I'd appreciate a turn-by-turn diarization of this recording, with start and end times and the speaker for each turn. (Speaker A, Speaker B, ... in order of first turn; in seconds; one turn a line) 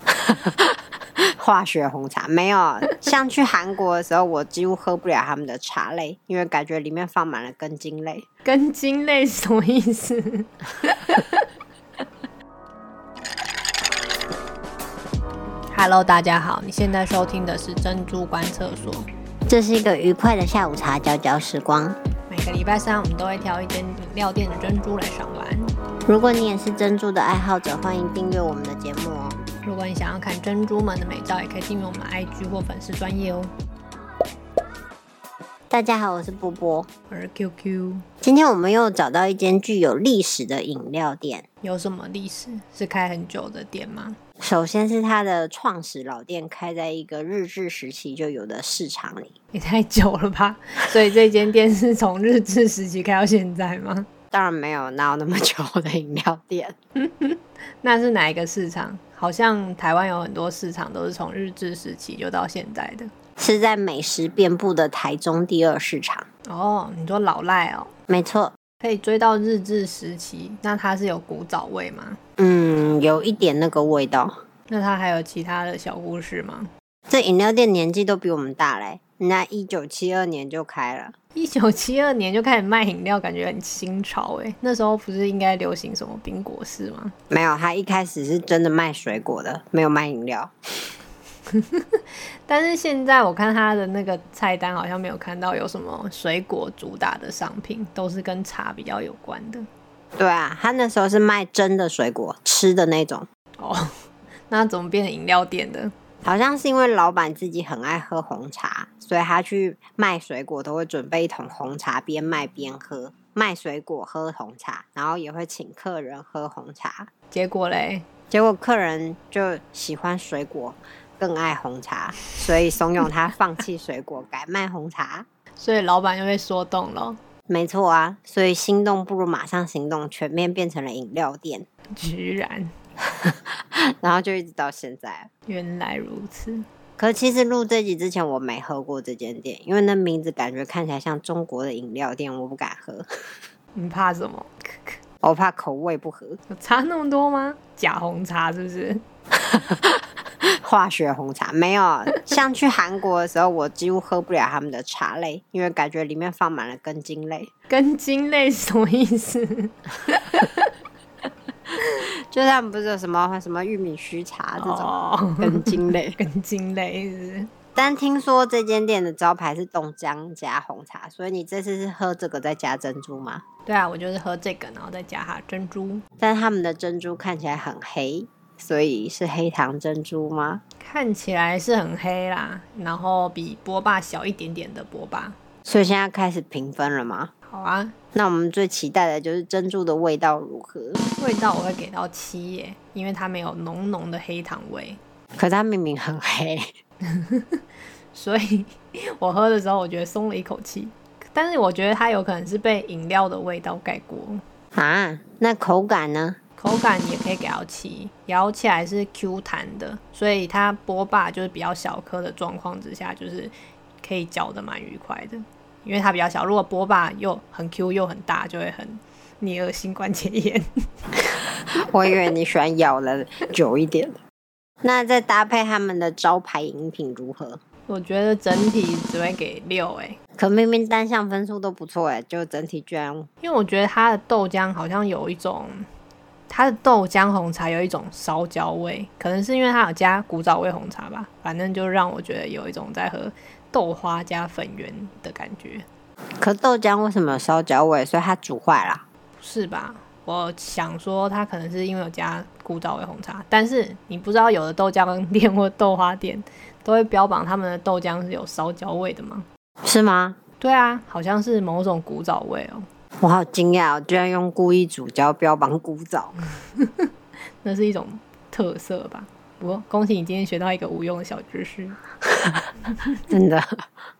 Speaker A: 0.1-8.2
Speaker B: 8.4-11.4
Speaker B: 15.7-19.1
Speaker A: 19.5-22.0
Speaker B: 22.3-25.7
Speaker A: 26.1-29.4
Speaker B: 29.6-33.5
Speaker A: 35.7-36.9
Speaker B: 37.1-38.0
Speaker A: 38.2-41.4
Speaker B: 41.6-44.2
Speaker A: 44.4-49.3
Speaker B: 49.5-54.1
Speaker A: 54.3-56.8
Speaker B: 57.0-63.1
Speaker A: 63.4-66.3
Speaker B: 66.5-67.9
Speaker A: 68.1-68.5
Speaker B: 68.8-72.2
Speaker A: 72.4-74.3
Speaker B: 74.7-76.7
Speaker A: 77.1-81.1
Speaker B: 81.3-87.1
Speaker A: 87.3-90.5
Speaker B: 91.5-99.7
Speaker A: 100.2-103.3
Speaker B: 103.6-103.9
Speaker B: 104.5-105.9
Speaker A: 106.2-117.1
Speaker B: 117.3-118.0
Speaker A: 118.3-125.2
Speaker B: 125.6-127.2
Speaker A: 127.5-131.7
Speaker B: 131.9-132.7
Speaker A: 133.1-135.3
Speaker B: 135.5-136.6
Speaker A: 137.0-143.1
Speaker B: 143.7-145.0
Speaker A: 145.2-146.4
Speaker B: 146.5-149.0
Speaker A: 149.4-157.5
Speaker B: 157.7-160.7
Speaker A: 162.0-166.2
Speaker B: 164.6-167.5
Speaker A: 167.8-173.4
Speaker B: 173.7-176.0
Speaker A: 176.2-180.6
Speaker B: 180.8-185.4
Speaker A: 185.6-187.3
Speaker B: 187.5-187.9
Speaker A: 188.1-191.0
Speaker B: 191.2-195.0
Speaker A: 195.4-196.7
Speaker B: 197.1-197.6
Speaker B: 198.1-204.4
Speaker A: 204.7-206.4
Speaker B: 206.6-220.7
Speaker A: 221.8-224.2
Speaker A: 224.8-227.6
Speaker B: 227.9-230.2
Speaker A: 230.4-233.3
Speaker B: 233.4-235.9
Speaker B: 236.5-245.8
Speaker A: 246.4-249.0
Speaker B: 249.4-259.5
Speaker A: 259.8-260.4
Speaker B: 260.6-262.9
Speaker A: 263.2-266.3
Speaker B: 266.8-267.1
Speaker B: 267.6-272.0
Speaker A: 273.3-273.8